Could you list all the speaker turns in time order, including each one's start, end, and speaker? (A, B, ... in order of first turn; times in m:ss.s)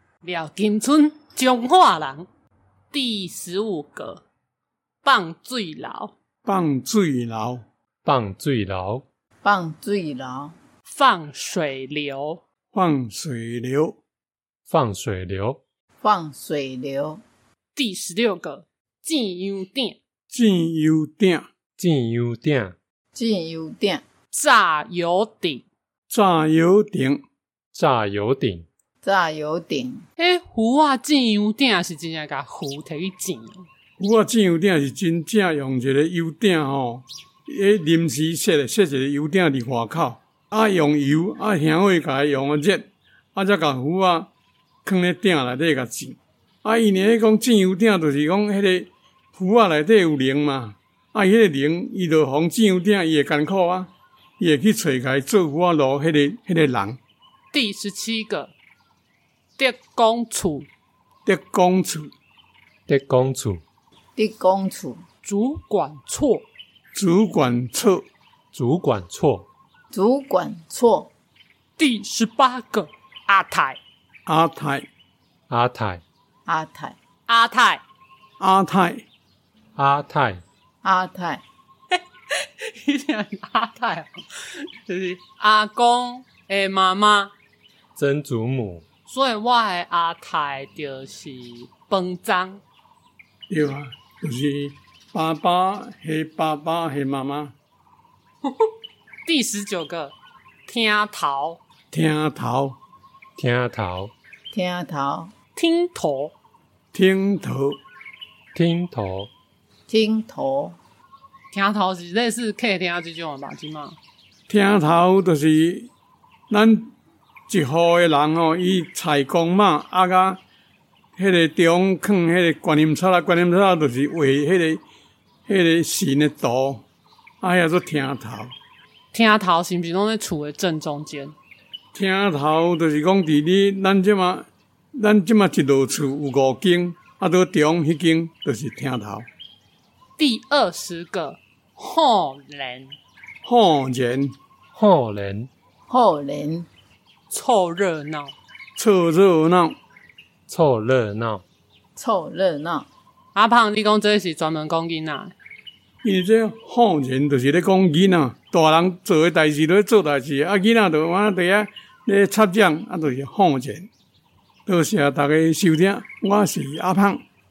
0:00.2-0:02.3 A
0:02.9-0:04.2 A
0:05.0-0:06.1 A
0:06.4-0:07.6 B
0:08.0-0:09.0 C
0:09.4-0:10.5 D
0:10.9-0:12.4 A
0:12.7-0:14.0 B
0:14.7-0:15.6 C
0:16.0-0:17.2 D
0:17.7-0:20.0 A
0:20.3-0:21.5 B
0:21.8-0:22.8 C
0:23.1-0:24.0 D
0:24.3-0:25.6 A
0:26.1-0:27.2 B
0:27.7-0:28.6 C
0:29.0-0:30.0 D
0:30.2-0:33.6 A
0:34.0-0:44.3 B
0:44.8-0:57.0 B
0:57.5-0:58.5 A
0:59.6-1:00.7 A
1:01.2-1:02.1 B
1:02.9-1:03.6 C
1:04.2-1:05.0 D
1:05.2-1:06.5 A
1:06.9-1:08.0 B
1:08.5-1:09.5 C
1:09.9-1:11.1 D
1:11.8-1:13.8 A
1:14.2-1:14.9 B
1:15.5-1:16.0 C
1:16.4-1:17.0 D
1:17.3-1:17.8 A
1:18.4-1:19.0 B
1:19.8-1:20.4 C
1:20.8-1:21.4 D
1:21.9-1:27.3 A
1:28.0-1:28.8 C
1:29.1-1:32.6 A
1:33.5-1:37.5 B
1:39.2-1:41.6 A
1:41.9-1:42.8 B
1:43.4-1:44.1 C
1:44.5-1:45.3 D
1:45.5-1:46.3 A
1:46.9-1:47.8 B
1:48.5-1:49.3 C
1:49.9-1:50.8 D
1:51.5-1:54.0 A
1:54.5-1:55.9 B
1:56.5-1:56.9 B
1:57.5-2:00.4 B
2:01.2-2:04.8 B
2:05.5-2:06.8 B
2:07.4-2:08.5 B
2:09.1-2:11.3 A
2:11.9-2:19.3 B
2:20.2-2:23.0 A
2:23.4-2:24.4 B
2:24.7-2:25.5 C
2:25.9-2:26.7 D
2:27.3-2:28.3 A
2:28.8-2:29.8 B
2:30.5-2:31.4 C
2:32.0-2:32.9 D
2:33.3-2:35.3 A
2:36.0-2:43.9 B
2:44.6-2:47.2 B